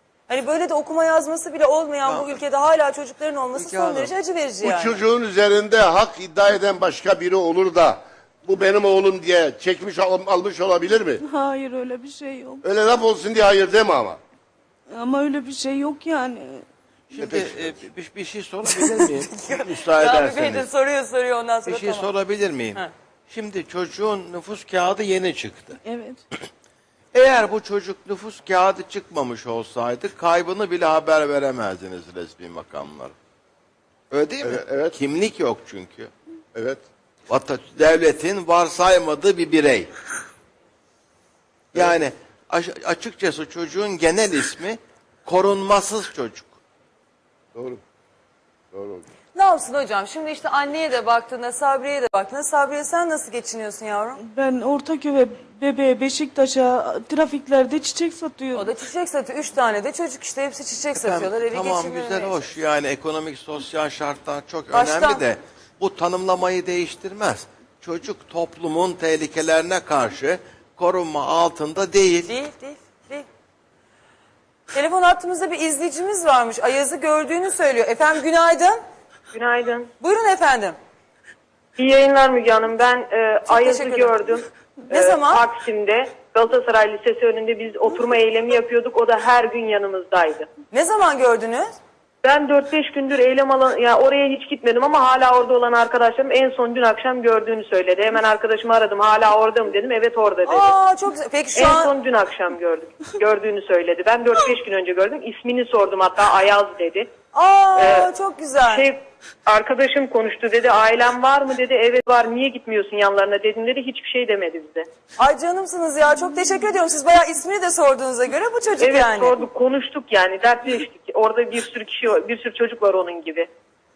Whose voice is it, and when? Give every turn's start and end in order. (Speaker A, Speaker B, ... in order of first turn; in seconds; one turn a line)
Speaker A: 0.3-5.0
Speaker B: 2.1-2.3
Speaker B: 3.6-4.1
Speaker C: 4.6-11.2
Speaker D: 11.2-12.6
Speaker C: 12.6-14.2
Speaker D: 14.9-16.6
Speaker B: 17.1-20.7
Speaker C: 17.2-17.7
Speaker A: 18.7-22.1
Speaker B: 21.6-25.8
Speaker D: 25.8-26.2
Speaker B: 27.1-33.1
Speaker B: 34.1-36.1
Speaker C: 34.4-35.0
Speaker C: 36.5-36.8
Speaker B: 37.3-39.9
Speaker B: 41.7-46.5
Speaker C: 47.5-47.8
Speaker C: 48.7-49.0
Speaker A: 49.3-54.2
Speaker D: 54.2-58.7
Speaker A: 58.5-62.5
Speaker B: 61.0-72.3
Speaker A: 64.7-65.2
Speaker A: 72.2-73.3
Speaker A: 74.7-78.8
Speaker E: 79.3-79.9
Speaker A: 80.0-80.8
Speaker E: 81.8-90.5
Speaker A: 83.5-84.2
Speaker A: 84.9-85.4
Speaker A: 90.7-91.7
Speaker E: 92.2-100.8
Speaker A: 100.4-101.9
Speaker E: 101.5-107.1
Speaker A: 107.3-108.8
Speaker E: 107.7-114.9
Speaker A: 115.2-119.3
Speaker E: 118.8-123.5